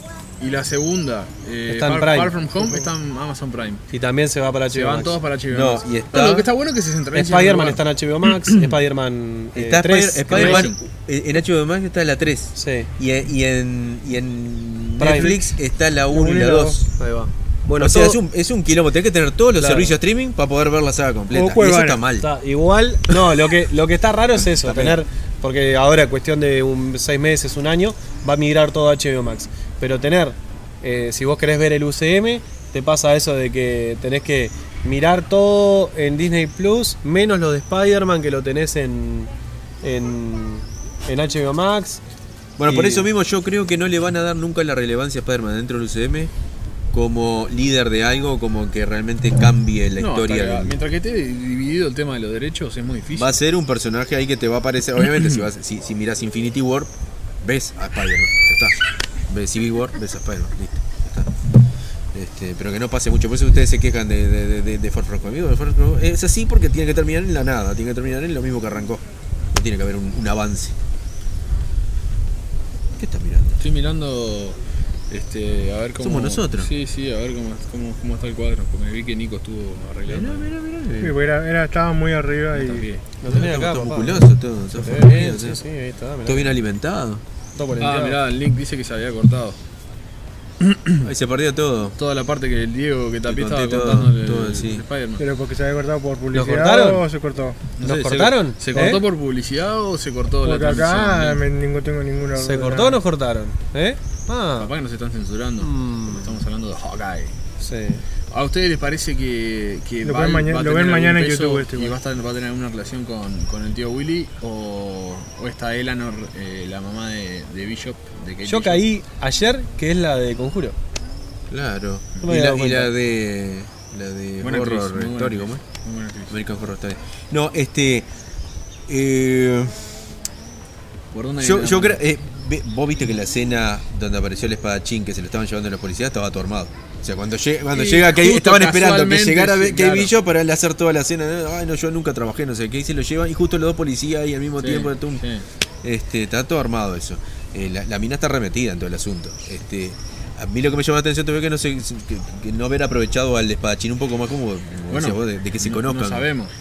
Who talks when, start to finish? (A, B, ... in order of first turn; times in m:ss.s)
0:00.4-0:03.8 A
0:01.7-0:02.4 B
0:02.6-0:02.9 C
0:03.9-0:05.2 B
0:04.7-0:08.8 A
0:05.5-0:06.5 D
0:07.1-0:10.7 B
0:09.6-0:16.9 D
0:10.3-0:10.8 A
0:12.6-0:12.9 B
0:15.0-0:15.4 B
0:15.0-0:15.5 C
0:16.1-0:16.8 C
0:17.0-0:18.2 B
0:17.8-0:22.3 D
0:19.6-0:20.0 B
0:21.3-0:22.0 C
0:22.2-0:39.3 B
0:24.6-0:25.0 D
0:39.8-0:42.0 B
0:42.6-0:46.3 D
0:42.7-0:43.1 B
0:46.9-0:50.8 D
0:50.0-0:53.4 A
0:53.1-0:56.9 D
0:55.1-0:55.5 A
0:57.4-1:01.3 D
1:02.1-1:10.8 D
1:13.0-1:13.6 D
1:13.6-1:14.6 A
1:15.1-1:20.5 A
1:16.0-1:16.7 D
1:20.1-1:21.2 D
1:21.0-1:22.9 C
1:22.5-1:23.0 A
1:23.2-1:26.6 B
1:23.2-1:25.6 D
1:26.2-1:27.2 D
1:27.6-1:28.2 B
1:27.8-1:29.6 A
1:30.6-1:31.1 A
1:31.0-1:32.0 D
1:32.0-1:35.3 A
1:33.3-1:34.9 D
1:35.2-1:37.6 C
1:36.3-1:37.0 B
1:37.8-1:41.4 A
1:37.8-1:39.0 B
1:40.4-1:43.0 C
1:42.4-1:44.7 B
1:44.6-1:47.4 A
1:45.6-1:46.3 B
1:47.6-1:48.0 B
1:48.3-1:58.9 A
1:50.0-1:52.0 C
1:58.4-2:00.8 B
2:01.5-2:05.6 D
2:02.2-2:02.9 B
2:04.4-2:06.4 A
2:06.3-2:08.1 D
2:08.9-2:10.0 D
2:11.1-2:12.0 A
2:11.4-2:25.2 D
2:17.7-2:20.1 A
2:24.6-2:25.5 A
2:25.8-2:36.3 D
2:34.9-2:36.5 A